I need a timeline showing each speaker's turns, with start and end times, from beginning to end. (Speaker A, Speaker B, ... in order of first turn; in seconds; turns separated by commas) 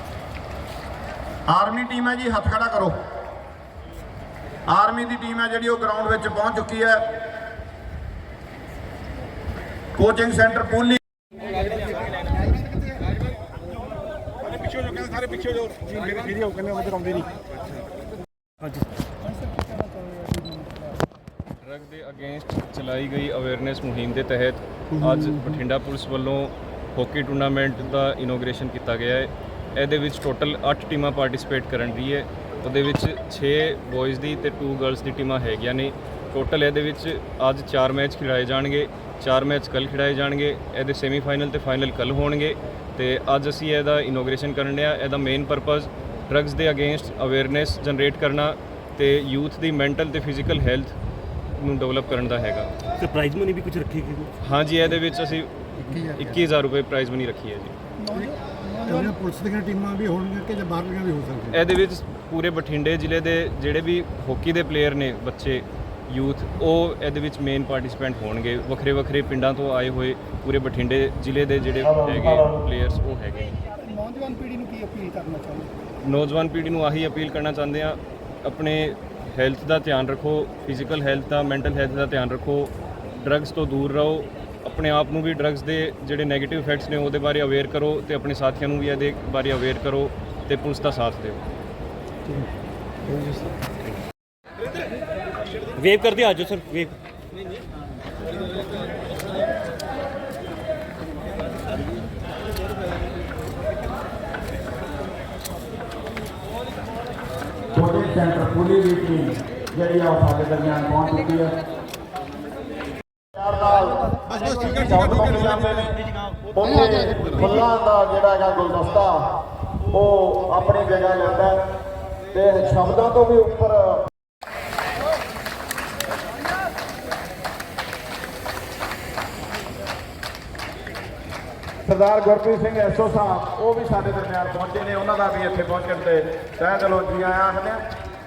Speaker A: 1.5-3.0, Speaker A: 4.7-7.1, Speaker A: 9.9-11.0, Speaker B: 15.7-17.3, Speaker B: 20.1-20.7, Speaker C: 21.6-50.9, Speaker C: 51.5-52.7, Speaker D: 53.0-54.3, Speaker C: 54.4-57.7, Speaker B: 58.7-61.5, Speaker C: 61.5-73.6, Speaker B: 74.1-75.7, Speaker C: 76.0-91.4, Speaker D: 93.1-93.4, Speaker D: 95.8-96.9, Speaker A: 107.7-111.5, Speaker A: 113.3-116.0, Speaker A: 116.5-119.3, Speaker A: 119.9-121.6, Speaker A: 122.3-124.1, Speaker A: 131.8-137.8